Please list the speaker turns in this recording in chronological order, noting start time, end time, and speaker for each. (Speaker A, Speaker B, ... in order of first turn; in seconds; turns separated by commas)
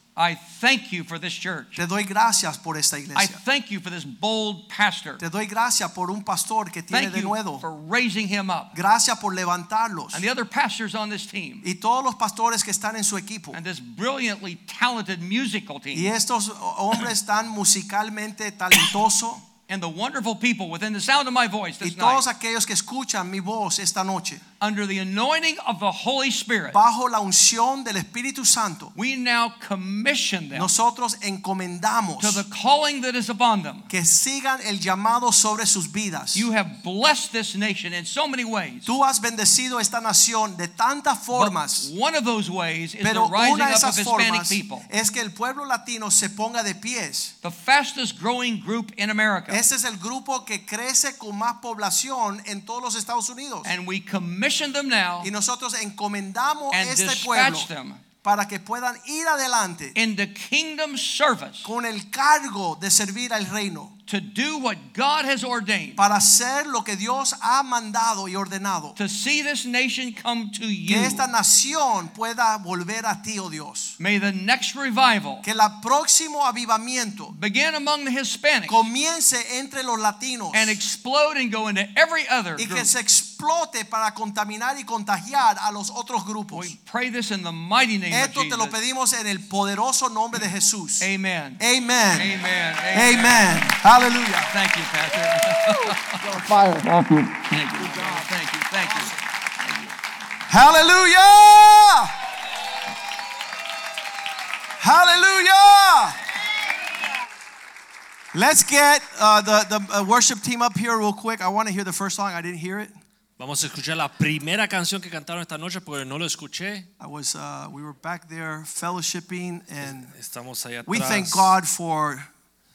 Speaker A: 0.2-1.8, Speaker B: 1.8-3.4, Speaker A: 3.1-5.2, Speaker B: 5.2-7.6, Speaker A: 6.9-8.8, Speaker B: 8.7-10.2, Speaker A: 10.1-11.7, Speaker B: 11.6-13.6, Speaker A: 13.5-16.1, Speaker B: 15.9-19.4, Speaker A: 19.7-22.3, Speaker B: 21.8-24.4, Speaker A: 24.6-26.8, Speaker B: 26.7-28.9, Speaker A: 28.9-30.8, Speaker B: 30.5-32.4, Speaker A: 32.2-33.9, Speaker B: 33.9-36.5, Speaker A: 36.4-38.9, Speaker B: 38.9-41.9, Speaker A: 41.3-44.9, Speaker B: 43.0-47.3, Speaker A: 47.4-49.6, Speaker B: 49.5-53.7, Speaker A: 53.6-55.3, Speaker B: 55.2-57.7, Speaker A: 56.7-58.0, Speaker B: 58.2-60.0, Speaker A: 60.0-61.7, Speaker B: 61.6-63.9, Speaker A: 64.1-66.0, Speaker B: 66.0-69.0, Speaker A: 69.0-71.3, Speaker B: 70.9-74.0, Speaker A: 74.0-75.5, Speaker B: 75.4-77.3, Speaker A: 77.3-78.9, Speaker B: 78.7-80.8, Speaker A: 80.5-82.9, Speaker B: 82.6-86.8, Speaker A: 86.5-88.8, Speaker B: 88.1-91.1, Speaker A: 91.0-91.6, Speaker B: 91.6-92.3, Speaker A: 92.1-93.7, Speaker B: 92.9-94.5, Speaker A: 94.5-100.0, Speaker B: 96.4-96.8, Speaker B: 100.5-102.1, Speaker B: 104.8-106.2, Speaker B: 108.3-113.0, Speaker C: 113.4-116.9, Speaker B: 117.0-120.1, Speaker C: 119.8-121.5, Speaker B: 120.9-122.3